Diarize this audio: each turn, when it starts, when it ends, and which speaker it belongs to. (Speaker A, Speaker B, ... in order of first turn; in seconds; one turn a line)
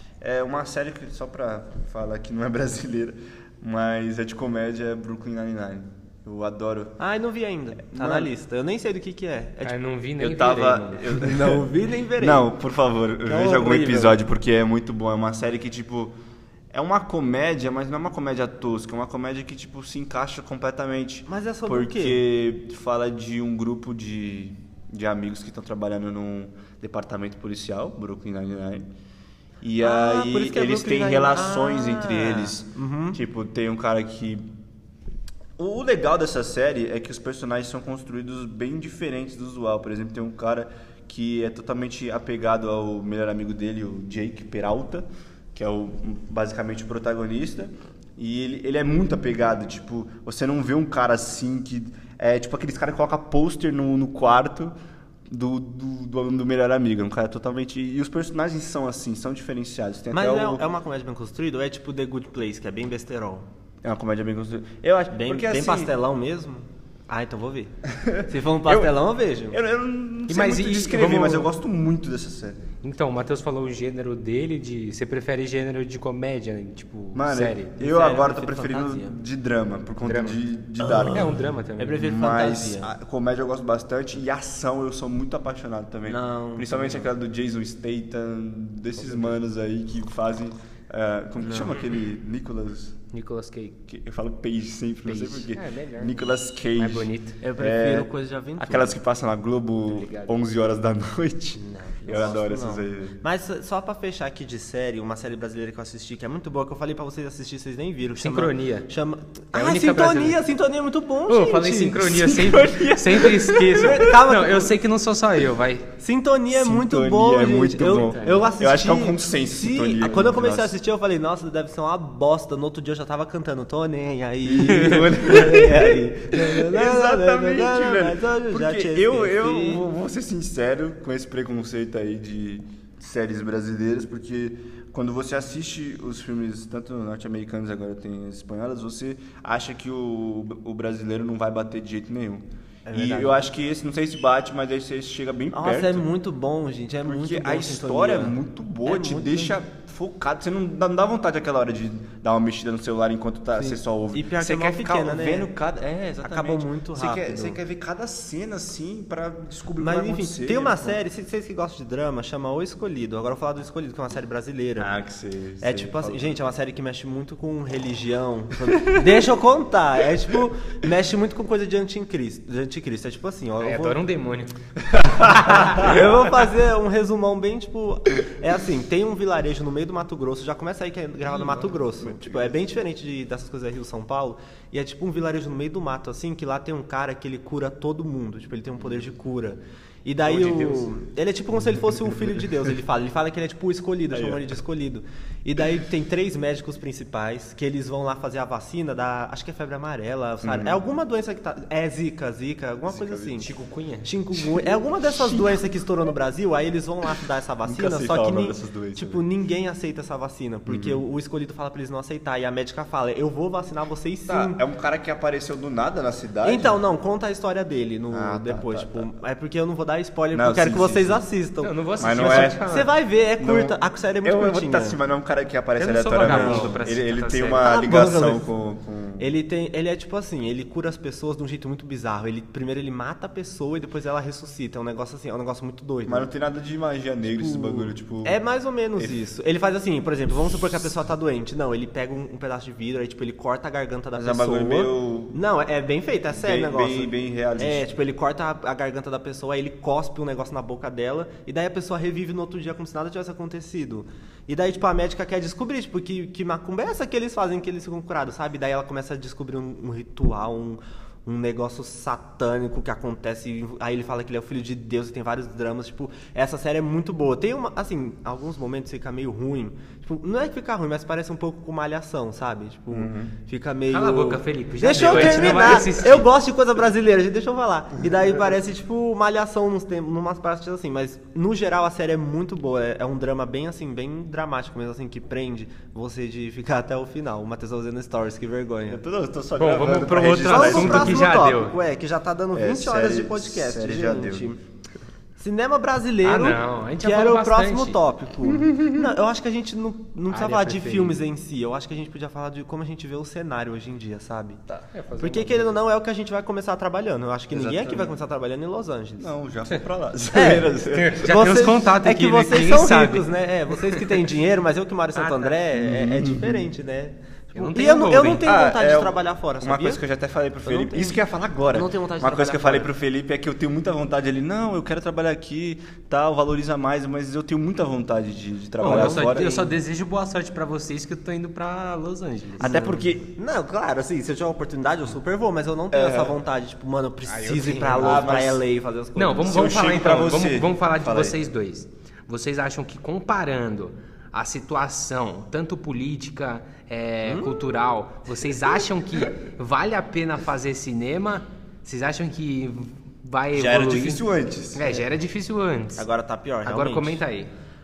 Speaker A: 0.2-7.0
Speaker B: 7.0-9.8
Speaker A: 7.9-8.3
Speaker C: 9.6-11.1
Speaker A: 10.2-16.1
Speaker B: 11.1-12.5
Speaker B: 13.2-14.2
Speaker A: 16.7-28.8
Speaker B: 21.3-22.2
Speaker A: 29.6-34.4
Speaker B: 29.8-33.2
Speaker A: 35.6-54.7
Speaker A: 55.3-60.6
Speaker B: 60.1-63.5
Speaker A: 63.8-65.9
Speaker B: 65.1-69.6
Speaker A: 67.9-68.9
Speaker A: 69.5-72.6
Speaker C: 70.3-71.5
Speaker C: 72.8-77.7
Speaker A: 77.1-81.3
Speaker B: 77.8-79.2
Speaker C: 80.0-82.1
Speaker B: 80.8-82.9
Speaker A: 82.0-93.0
Speaker B: 86.1-87.1
Speaker C: 89.0-89.3
Speaker B: 91.4-91.7
Speaker C: 93.1-93.8
Speaker A: 93.9-103.2
Speaker C: 95.0-97.4
Speaker B: 97.4-99.0
Speaker C: 99.8-100.4
Speaker B: 101.6-112.4
Speaker C: 108.2-108.9
Speaker C: 109.5-110.4
Speaker C: 111.3-115.9
Speaker A: 112.2-114.2
Speaker B: 113.7-114.7
Speaker B: 116.0-129.8
Speaker A: 116.5-120.8
Speaker C: 118.0-118.4
Speaker A: 124.4-146.1
Speaker B: 142.8-143.4
Speaker B: 145.5-149.5
Speaker A: 147.1-161.0
Speaker B: 153.6-155.5
Speaker B: 156.2-157.6
Speaker B: 159.8-164.9
Speaker A: 164.8-166.4
Speaker B: 165.6-174.0
Speaker C: 173.6-174.5
Speaker A: 174.8-176.0
Speaker B: 175.3-203.5
Speaker C: 181.3-181.7
Speaker A: 182.0-182.6
Speaker C: 190.2-190.8
Speaker A: 194.1-194.5
Speaker A: 200.4-200.8
Speaker A: 202.9-203.4
Speaker C: 203.4-204.1
Speaker B: 204.0-214.6
Speaker A: 204.3-205.7
Speaker A: 207.6-209.2
Speaker A: 210.7-211.0
Speaker A: 214.3-216.8
Speaker B: 216.4-225.0
Speaker A: 218.1-219.1
Speaker A: 220.3-221.3
Speaker C: 221.6-222.9
Speaker A: 222.0-222.6
Speaker A: 223.4-229.3
Speaker C: 225.8-227.7
Speaker B: 226.2-226.8
Speaker B: 227.6-228.5
Speaker B: 229.2-236.3
Speaker A: 236.1-238.4
Speaker B: 237.3-289.0
Speaker A: 244.2-245.4
Speaker A: 246.3-247.9
Speaker A: 272.9-273.3
Speaker C: 273.9-276.3
Speaker A: 275.0-275.6
Speaker A: 288.9-291.5
Speaker C: 289.6-291.7
Speaker B: 290.4-294.6
Speaker A: 292.5-294.5
Speaker B: 295.4-304.6
Speaker C: 296.2-298.0
Speaker C: 300.3-301.2
Speaker C: 304.9-305.8
Speaker B: 305.2-309.3
Speaker A: 307.5-308.1
Speaker A: 309.2-311.2
Speaker B: 310.3-320.0
Speaker C: 310.9-313.3
Speaker C: 315.1-315.6
Speaker A: 315.8-316.7
Speaker C: 317.5-318.4
Speaker A: 318.4-329.7
Speaker B: 320.6-322.9
Speaker C: 328.8-332.9
Speaker B: 328.8-329.6
Speaker A: 332.6-333.2
Speaker B: 332.6-339.5
Speaker A: 335.9-336.4
Speaker C: 337.2-338.3
Speaker A: 338.0-338.6
Speaker C: 339.1-356.1
Speaker A: 339.4-341.4
Speaker B: 347.2-347.6
Speaker A: 353.5-355.1
Speaker B: 356.0-357.2
Speaker C: 356.6-357.5